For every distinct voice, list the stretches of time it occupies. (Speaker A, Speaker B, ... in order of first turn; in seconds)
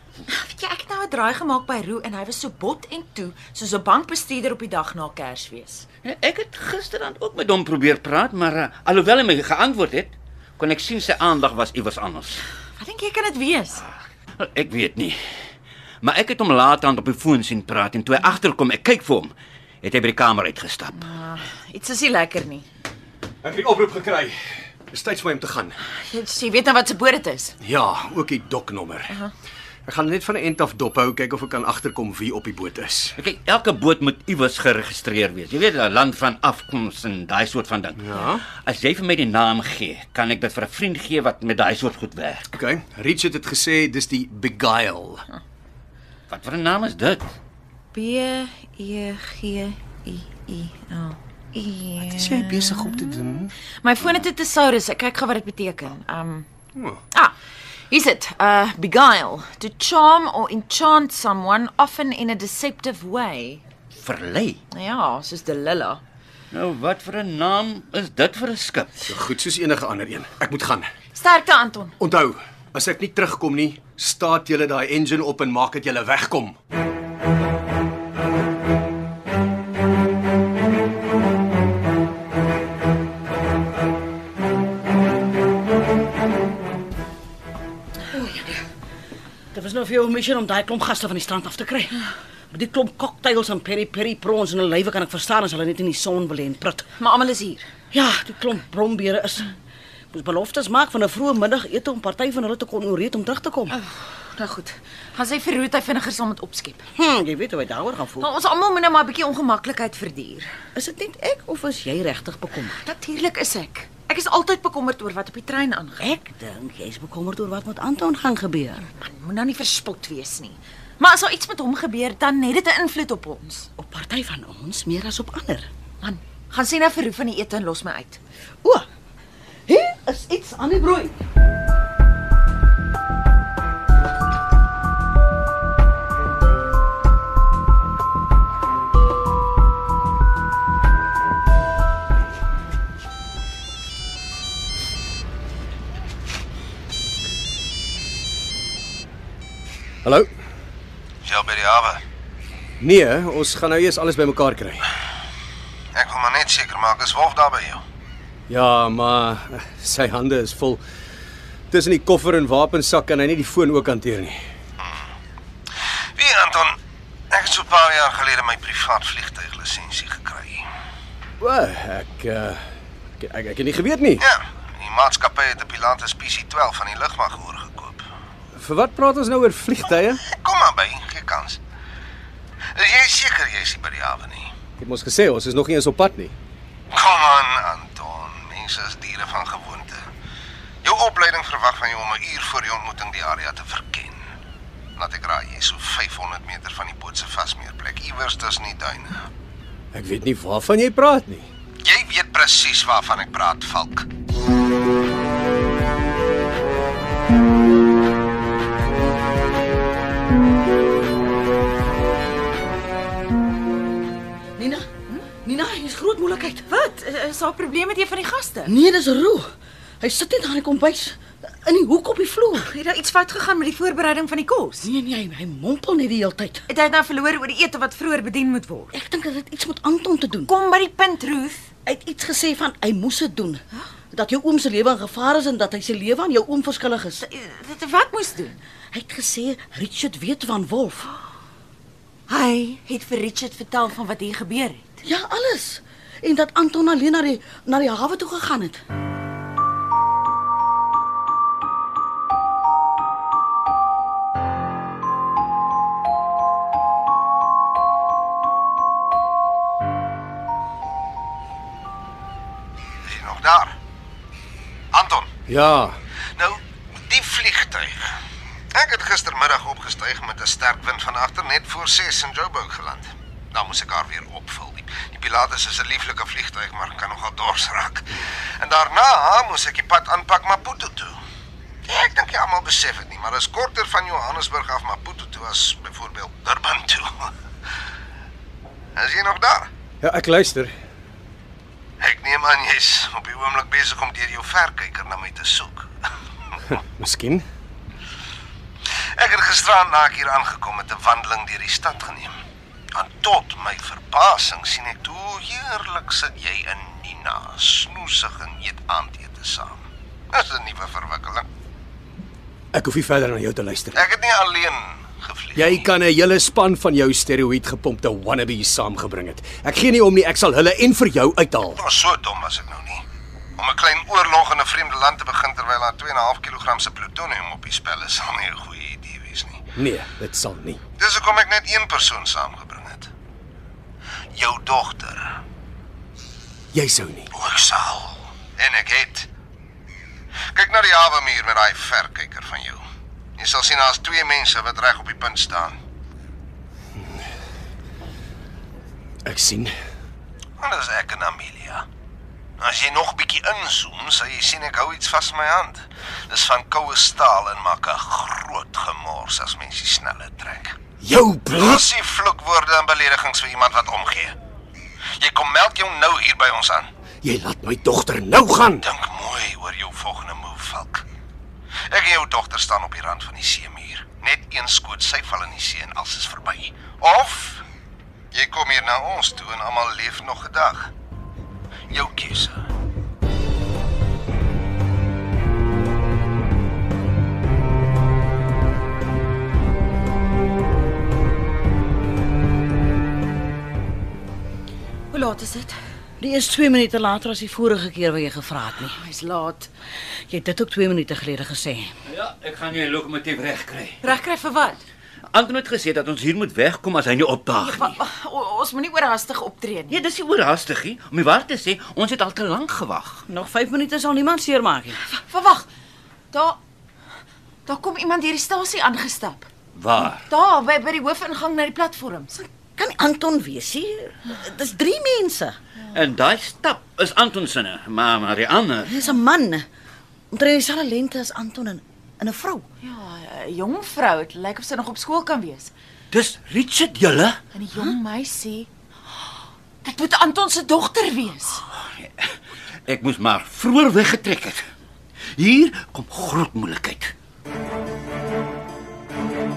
Speaker A: 0.3-5.9, 12.8-13.8, 20.9-22.6, 26.1-27.5, 47.9-53.1, 53.8-56.5, 57.9-63.6, 64.7-66.0, 71.1-71.9, 97.0-97.6, 103.7-106.8, 108.2-110.5, 112.8-116.1, 118.9-123.7, 126.0-128.2, 216.7-218.7, 222.6-224.9, 226.7-228.9, 230.4-231.7, 237.2-238.6, 242.3-245.0, 395.1-395.7, 398.9-399.7, 404.0-404.8, 407.6-410.0, 415.1-415.7, 416.3-416.6, 417.6-419.5, 420.1-422.4, 432.8-435.7, 437.5-438.7, 439.8-441.6
Speaker B: 6.0-12.4, 14.4-15.2, 16.0-21.1, 33.2-42.4, 46.3-47.3, 64.0-64.6, 66.5-69.1, 402.1-404.0, 405.3-408.0, 409.9-413.2, 419.7-420.2, 425.9-428.9, 436.1-437.4, 441.7-442.3, 442.9-444.6, 445.4-447.1
Speaker C: 23.4-24.3, 24.9-25.8, 27.6-29.2, 29.9-33.1, 38.0-38.4, 42.5-45.2, 52.1-53.5, 69.1-70.9, 72.0-76.5, 152.8-154.8, 158.5-160.8, 161.7-164.4, 171.4-172.6, 173.2-174.2, 178.5-180.2, 184.8-186.3, 199.9-201.5, 265.5-266.0, 290.0-290.7, 296.7-297.4, 312.7-314.0, 315.6-321.8, 329.8-330.8, 336.7-337.3, 349.2-349.7, 361.0-361.9, 367.2-368.8
Speaker D: 88.1-88.6, 89.5-96.9, 97.9-99.5, 100.1-103.7, 106.9-108.3, 110.8-112.8, 116.0-118.8, 123.8-125.7, 129.7-131.1, 214.6-216.6, 218.7-222.7, 224.8-226.7, 228.9-230.5, 231.8-237.2, 238.9-241.1, 245.0-248.8, 396.2-399.0, 400.3-401.9, 413.3-415.0, 422.4-425.6, 428.9-429.6, 430.3-432.7
Speaker E: 151.2-152.0, 155.9-157.8, 164.8-165.0, 166.2-166.8, 167.3-170.7, 174.2-178.0, 180.3-181.6, 182.7-184.5, 186.9-190.0, 190.8-194.2, 195.0-199.3, 201.8-204.1, 263.0-263.8, 264.9-265.3, 266.4-268.2, 268.7-281.2, 281.9-287.3, 288.9-289.7, 292.0-295.9, 299.1-302.3, 302.9-311.5, 313.9-315.9, 321.8-323.0, 323.6-329.7, 331.0-333.1, 334.4-335.4, 337.3-339.3, 340.5-342.8, 343.4-345.8, 350.6-351.9, 352.6-360.8, 361.6-364.4, 365.2-366.9, 368.8-371.0, 371.9-377.6, 378.3-380.9, 381.9-382.6